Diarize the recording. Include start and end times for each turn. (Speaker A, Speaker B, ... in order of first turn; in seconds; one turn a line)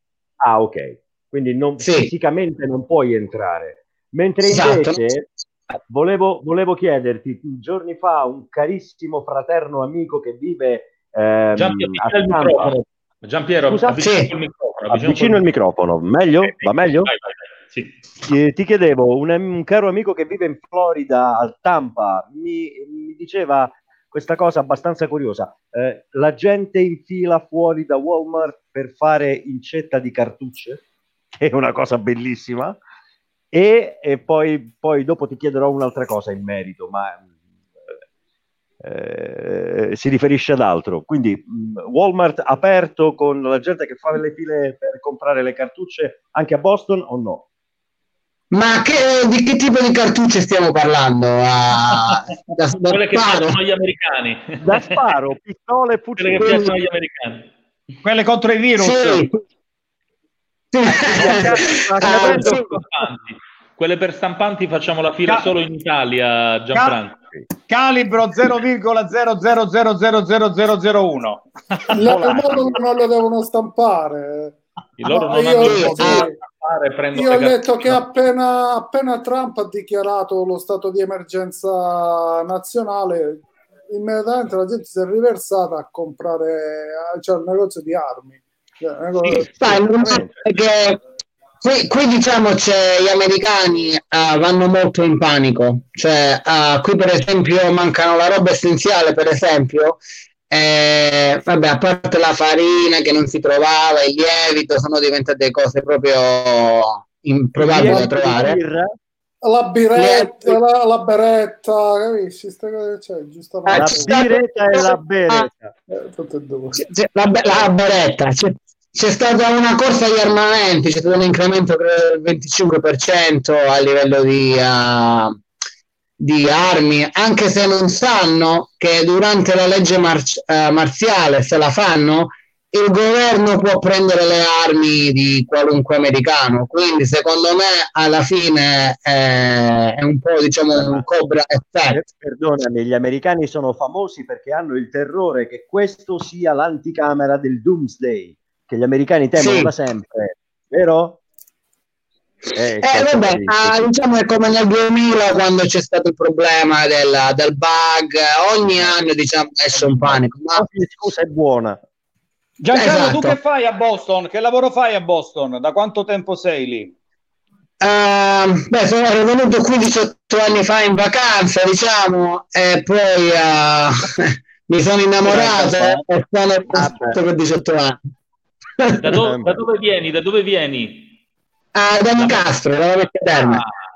Speaker A: 0.4-5.3
Speaker B: 1.8-2.1
Speaker B: 4.4-5.0
Speaker A: 5.9-12.8
Speaker C: 11.6-15.4
Speaker A: 13.6-14.2
Speaker B: 14.0-14.3
Speaker A: 14.9-17.1
Speaker C: 16.4-18.0
Speaker A: 18.2-30.8
Speaker A: 31.3-32.8
Speaker A: 33.5-37.2
Speaker A: 38.8-47.4
Speaker B: 48.5-53.6
Speaker C: 52.9-55.0
Speaker A: 54.6-56.7
Speaker C: 56.2-57.5
Speaker B: 56.4-56.7
Speaker D: 58.0-59.3
Speaker B: 58.8-59.4
Speaker B: 60.7-62.6
Speaker A: 60.9-62.7
Speaker C: 62.0-67.2
Speaker D: 67.6-71.5
Speaker E: 71.9-76.3
Speaker A: 72.1-72.6
Speaker C: 75.0-78.0
Speaker B: 75.5-76.3
Speaker E: 77.1-89.8
Speaker B: 89.4-91.0
Speaker A: 90.0-90.3
Speaker B: 91.6-108.6
Speaker A: 107.5-108.9
Speaker E: 107.8-108.1
Speaker E: 109.4-114.1
Speaker B: 109.9-110.5
Speaker B: 113.7-115.5
Speaker A: 113.7-115.7
Speaker E: 115.9-116.8
Speaker B: 116.8-125.4
Speaker B: 126.2-142.0
Speaker A: 140.7-141.1
Speaker A: 141.9-151.2
Speaker B: 149.3-149.7
Speaker A: 152.6-153.9
Speaker B: 152.8-160.6
Speaker A: 158.6-159.0
Speaker A: 159.7-161.8
Speaker D: 162.6-166.9
Speaker B: 162.7-163.4
Speaker B: 167.8-174.0
Speaker B: 174.7-178.0
Speaker A: 175.2-176.0
Speaker B: 178.8-179.1
Speaker C: 179.0-181.1
Speaker A: 179.2-179.6
Speaker B: 181.8-183.6
Speaker C: 182.1-182.5
Speaker C: 183.3-183.8